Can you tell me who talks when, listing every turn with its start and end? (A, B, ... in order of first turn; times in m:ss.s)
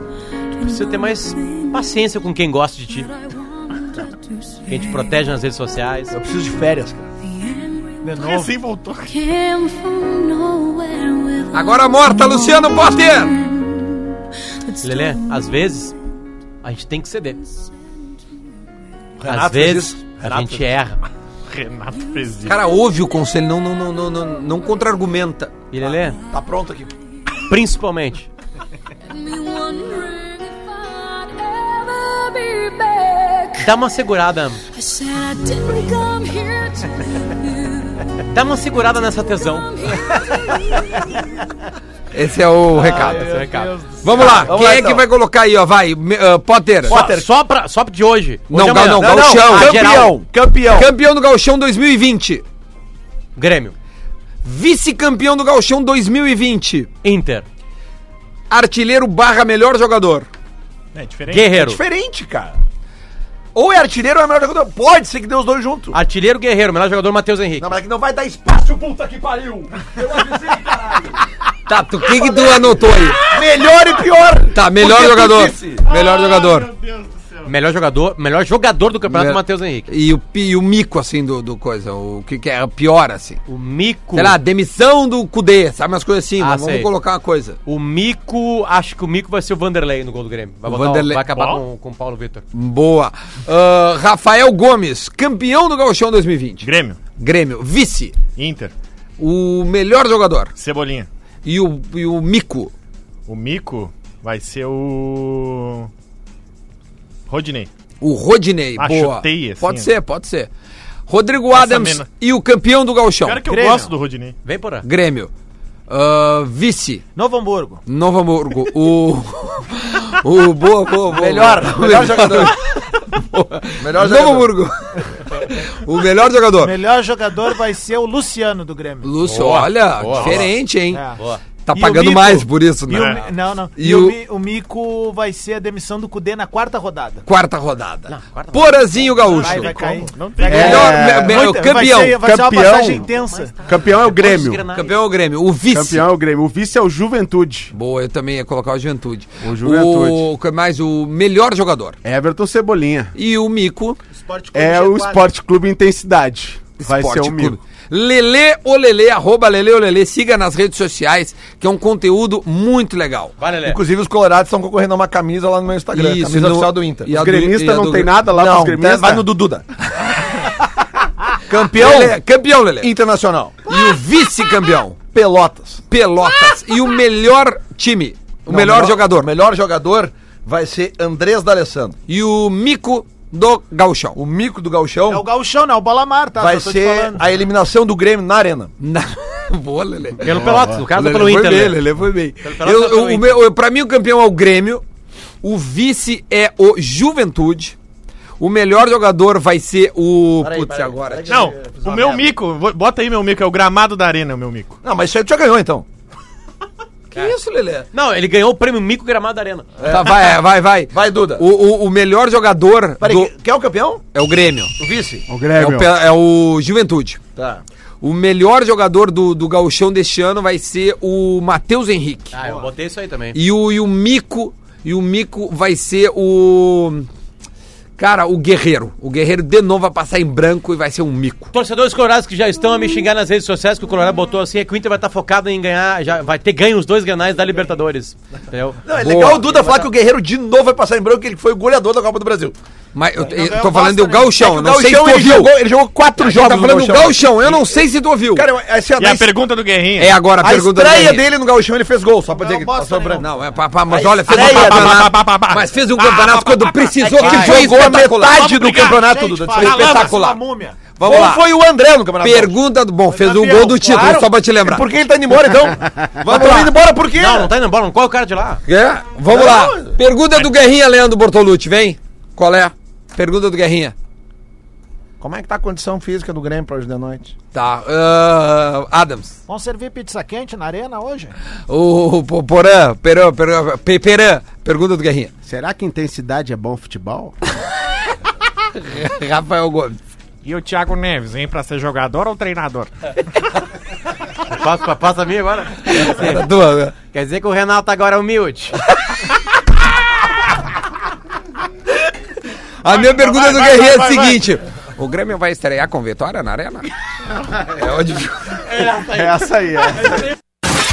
0:00.6-0:01.9 A
0:00.6-0:03.1 B
0:03.0-0:05.1 A
0:04.6-0:06.1 B
0:06.1-0:07.1 C
0:07.2-0:08.2 A
0:08.0-0:08.5 D
0:08.2-0:09.2 E
0:09.1-0:15.5 A
0:11.5-0:13.3 F
0:14.8-0:15.9 B
0:16.6-0:17.4 B
0:19.2-0:20.6 C
0:19.2-0:21.0 B
0:21.5-0:22.6 E
0:22.4-0:25.5 F
0:25.7-0:26.2 B
0:25.8-0:26.9 C
0:27.5-0:28.3 B
0:29.0-0:33.7 A
0:33.6-0:34.6 B
0:34.7-0:38.2 A
0:38.3-0:39.7 B
0:39.3-0:41.2 A
0:42.1-0:43.3 F
0:42.7-0:44.6 D
0:42.8-0:44.4 B
0:44.0-0:47.0 F
0:44.4-0:45.0 C
0:46.9-0:50.1 B
0:46.9-0:47.3 C
0:48.5-0:50.1 F
0:48.9-0:50.9 C
0:50.6-0:52.4 F
0:53.4-0:53.7 B
0:54.4-0:56.9 F
0:57.0-0:57.4 B
0:58.5-1:00.3 F
1:00.9-1:01.5 E
1:01.3-1:01.8 B
1:01.4-1:02.6 C
1:03.6-1:06.0 C
1:05.9-1:07.7 B
1:07.6-1:11.2 C
1:11.7-1:13.2 F
1:12.1-1:15.8 C
1:14.5-1:16.7 F
1:15.9-1:17.5 E
1:17.4-1:19.9 B
1:19.1-1:23.4 F
1:23.5-1:24.4 B
1:24.1-1:27.6 F
1:26.4-1:26.9 B
1:27.6-1:32.4 B
1:30.6-1:31.2 F
1:31.3-1:31.6 E
1:32.5-1:38.2 F
1:36.6-1:37.0 E
1:38.4-1:38.7 E
1:39.2-1:40.5 F
1:40.6-1:41.1 E
1:41.4-1:42.7 F
1:43.3-1:45.9 E
1:47.3-1:47.7 E
1:48.0-1:50.5 F
1:48.8-1:49.9 E
1:51.1-1:53.4 F
1:51.5-1:52.1 E
1:53.2-1:54.4 E
1:53.5-1:53.9 D
1:54.4-1:54.8 B
1:54.8-1:55.3 F
1:55.9-1:57.0 F
1:57.2-1:57.8 D
1:57.9-2:06.8 F
2:01.1-2:02.6 C
2:03.8-2:04.5 C
2:06.6-2:09.1 D
2:09.0-2:11.1 F
2:09.2-2:10.5 B
2:10.1-2:10.4 E
2:10.9-2:11.2 D
2:11.2-2:11.4 B
2:11.6-2:13.2 F
2:11.7-2:17.2 D
2:12.9-2:13.2 E
2:13.8-2:14.2 F
2:17.3-2:22.3 F
2:18.1-2:20.0 B
2:19.2-2:23.6 D
2:20.0-2:21.0 E
2:20.4-2:23.0 G
2:22.6-2:24.9 B
2:23.6-2:24.7 G
2:24.7-2:26.0 F
2:25.7-2:27.7 G
2:27.7-2:32.0 F
2:29.4-2:30.2 G
2:32.0-2:33.1 G
2:33.1-2:34.0 F
2:34.1-2:35.3 D
2:34.5-2:37.6 G
2:36.8-2:43.3 F
2:43.4-2:43.8 B
2:43.6-2:47.3 C
2:45.9-2:48.2 F
2:47.1-2:49.3 G
2:48.3-2:49.6 C
2:51.5-2:52.2 C
2:51.5-2:52.9 F
2:52.8-2:53.6 C
2:53.6-2:55.0 F
2:55.1-2:55.8 C
2:55.9-2:59.3 F
2:58.5-3:02.0 C
3:02.1-3:04.2 F
3:04.1-3:05.3 C
3:05.1-3:07.2 D
3:06.4-3:08.7 C
3:08.8-3:14.8 F
3:10.2-3:11.8 B
3:10.3-3:10.8 G
3:12.4-3:13.4 B
3:15.4-3:17.8 F
3:18.4-3:21.5 F
3:20.4-3:22.3 C
3:21.3-3:24.8 E
3:24.8-3:25.9 C
3:27.1-3:27.9 F
3:27.9-3:29.7 B
3:29.8-3:30.4 C
3:29.9-3:33.3 F
3:30.9-3:31.4 C
3:33.0-3:34.0 C
3:34.1-3:34.7 F
3:34.8-3:35.3 C
3:35.3-3:35.9 G
3:35.5-3:37.2 F
3:37.4-3:37.6 C
3:38.0-3:42.4 F
3:42.3-3:43.4 B
3:43.3-3:47.1 F
3:48.0-3:51.5 F
3:51.5-3:59.9 B
3:58.8-4:02.6 C
3:58.9-3:59.6 F
4:02.9-4:05.6 F
4:03.2-4:04.3 D
4:04.3-4:07.8 C
4:06.2-4:08.4 F
4:08.3-4:09.3 C
4:09.0-4:10.2 E
4:10.0-4:11.3 F
4:10.4-4:13.3 C
4:12.3-4:13.3 D
4:13.2-4:18.5 F
4:13.9-4:15.1 C
4:14.3-4:16.7 E
4:17.0-4:20.1 C
4:17.1-4:20.9 D
4:19.6-4:20.4 F
4:21.0-4:21.4 F
4:21.0-4:22.6 C
4:22.2-4:24.8 F
4:23.1-4:24.2 D
4:23.8-4:27.5 C
4:26.3-4:26.7 F
4:26.3-4:26.6 B
4:27.1-4:28.6 B
4:28.7-4:33.9 F
4:29.3-4:30.0 C
4:35.2-4:37.3 C
4:37.5-4:39.4 F
4:39.5-4:41.3 D
4:41.7-4:45.3 F
4:45.4-4:47.3 G
4:48.7-4:50.0 F
4:50.4-4:53.1 E
4:54.5-4:56.5 B
4:55.8-4:56.9 F
4:57.0-4:58.8 B
5:02.8-5:06.9 F
5:02.9-5:04.4 E
5:07.5-5:08.6 F
5:08.7-5:09.3 B
5:09.0-5:10.3 G